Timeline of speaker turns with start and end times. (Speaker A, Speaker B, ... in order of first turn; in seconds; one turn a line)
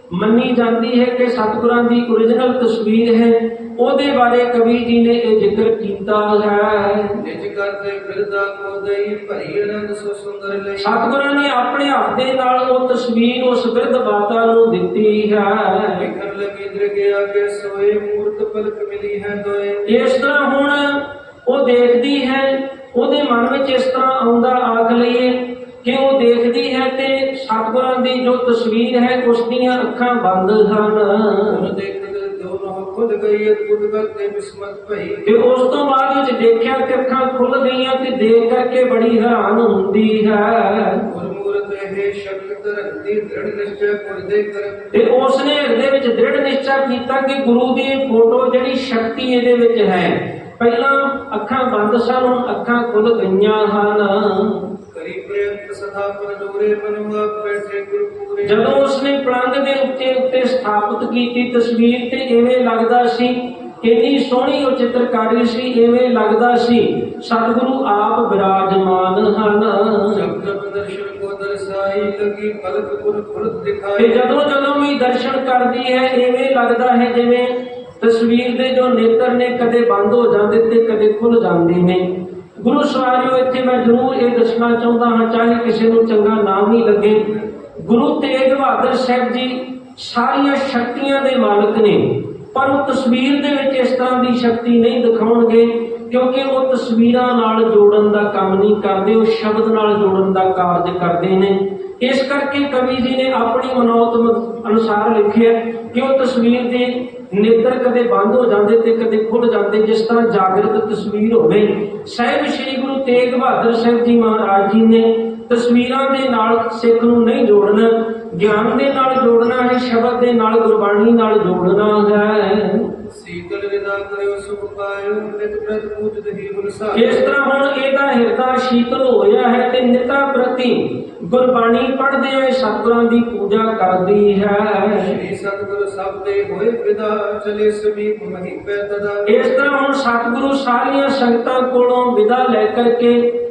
Speaker A: 0.1-7.2
Speaker B: 7.2-11.1
Speaker A: 10.8-16.1
Speaker B: 16.0-20.1
Speaker A: 19.9-31.6
Speaker B: 31.5-35.3
Speaker A: 35.2-41.1
Speaker B: 41.1-45.1
Speaker A: 44.9-54.7
Speaker B: 54.9-58.9
Speaker A: 58.4-70.2
Speaker B: 70.1-74.3
Speaker A: 74.0-122.9
Speaker B: 123.1-127.3
Speaker A: 126.9-135.1
Speaker B: 134.9-139.5
Speaker A: 139.3-143.2